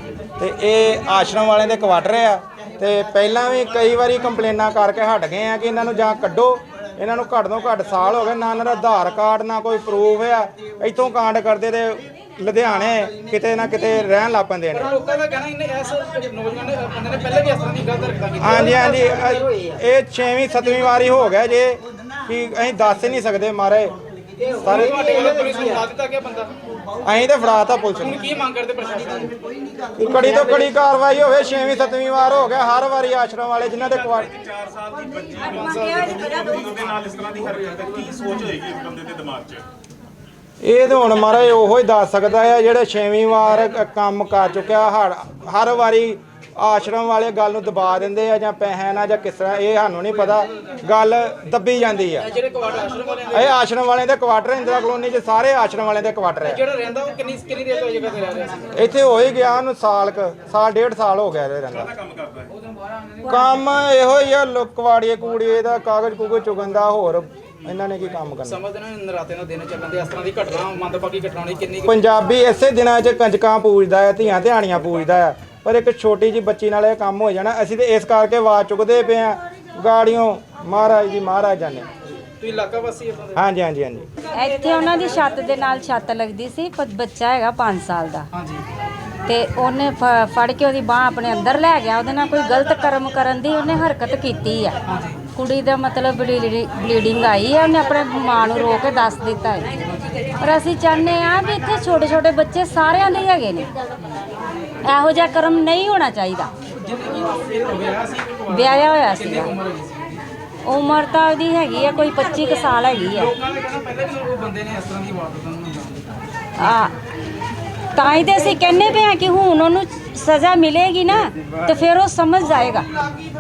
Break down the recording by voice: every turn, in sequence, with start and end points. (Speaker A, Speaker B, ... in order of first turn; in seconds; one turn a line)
Speaker A: 0.4-14.9
Speaker B: 14.8-19.5
Speaker A: 18.4-23.9
Speaker A: 24.6-25.4
Speaker B: 24.6-26.5
Speaker A: 27.0-28.2
Speaker B: 28.0-29.3
Speaker A: 30.0-34.4
Speaker B: 35.4-36.4
Speaker C: 37.1-39.6
Speaker A: 40.6-52.3
Speaker B: 52.2-53.5
Speaker A: 53.3-56.6
Speaker B: 56.5-58.8
Speaker A: 58.7-62.0
Speaker A: 63.2-68.6
Speaker B: 68.5-71.9
Speaker A: 71.9-81.9
Speaker B: 82.4-83.4
Speaker A: 83.3-84.1
Speaker D: 84.3-88.3
Speaker B: 88.3-88.6
Speaker D: 89.3-94.8
Speaker B: 94.9-95.3
Speaker D: 95.3-99.7
Speaker D: 100.4-103.7
Speaker D: 104.8-106.5
Speaker B: 106.7-110.2
Speaker D: 108.5-109.5
Speaker D: 110.7-113.3
Speaker B: 113.1-116.0
Speaker D: 116.6-117.0
Speaker D: 118.0-122.9